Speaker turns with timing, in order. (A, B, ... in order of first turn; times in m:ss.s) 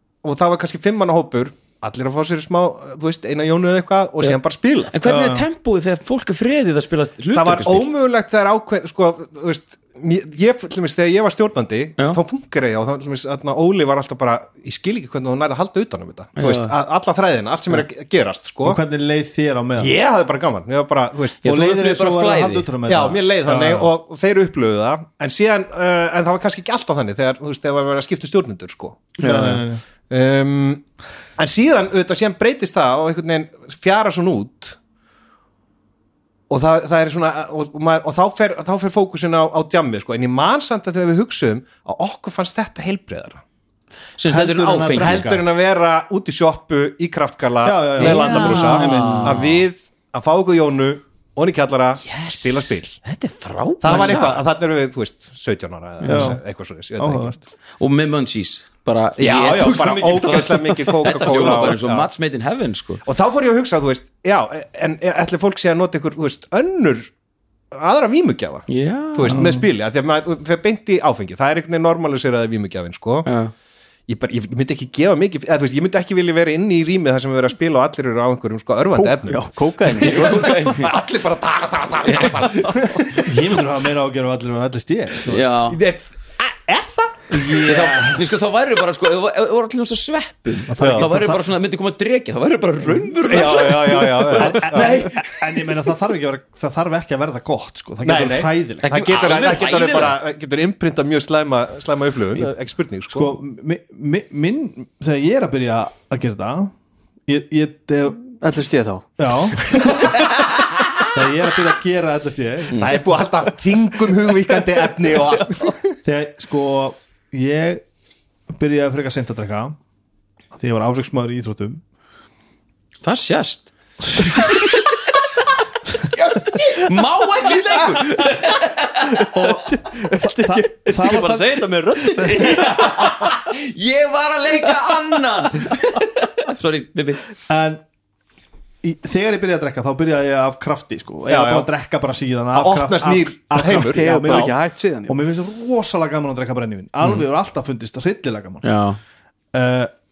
0:00.2-0:04.9 A
0:04.9-0:07.9 B
0:05.0-0:05.4 C
0:07.3-0:18.8 A
0:16.4-0:16.7 B
0:18.6-0:19.9 C
0:19.8-0:21.5 A
0:21.4-0:22.7 B
0:21.4-0:23.9 C
0:22.9-0:29.1 A
0:29.2-0:29.6 B
0:29.2-0:29.8 C
0:30.1-0:30.8 A
0:31.4-0:34.8 A
0:36.5-0:43.4 A
0:44.2-0:45.2 B
0:44.3-0:45.4 C
0:44.9-0:53.0 A
0:47.6-0:49.4 C
0:48.0-0:49.5 B
0:52.0-0:54.4 B
0:53.8-0:57.4 A
0:56.0-0:56.4 B
0:56.0-0:56.4 C
0:57.0-0:57.4 C
0:57.8-1:03.0 B
0:59.2-1:02.1 A
1:03.0-1:07.1 A
1:07.7-1:13.3 A
1:08.7-1:09.5 B
1:09.3-1:09.6 C
1:13.2-1:13.5 B
1:14.1-1:23.4 A
1:18.9-1:20.7 D
1:20.0-1:20.9 B
1:23.2-1:25.6 C
1:25.3-1:25.8 B
1:25.7-1:27.7 A
1:27.3-1:28.2 C
1:27.5-1:35.7 B
1:30.7-1:31.4 C
1:30.8-1:31.1 A
1:33.3-1:35.0 A
1:34.3-1:39.0 C
1:38.0-1:43.4 A
1:38.8-1:40.2 B
1:43.1-1:46.7 C
1:47.3-1:48.3 C
1:48.4-1:49.0 D
1:49.2-1:52.8 C
1:52.7-1:55.9 A
1:56.0-1:57.8 C
1:58.5-1:59.8 C
2:00.5-2:01.8 C
2:03.0-2:04.8 B
2:06.2-2:09.2 B
2:09.3-2:12.7 C
2:09.3-2:12.9 D
2:12.3-2:17.2 B
2:17.5-2:17.8 C
2:18.8-2:24.5 C
2:21.3-2:21.7 A
2:22.5-2:24.5 A
2:23.6-2:25.2 D
2:25.1-2:28.6 C
2:28.6-2:29.0 B
2:29.5-2:29.9 C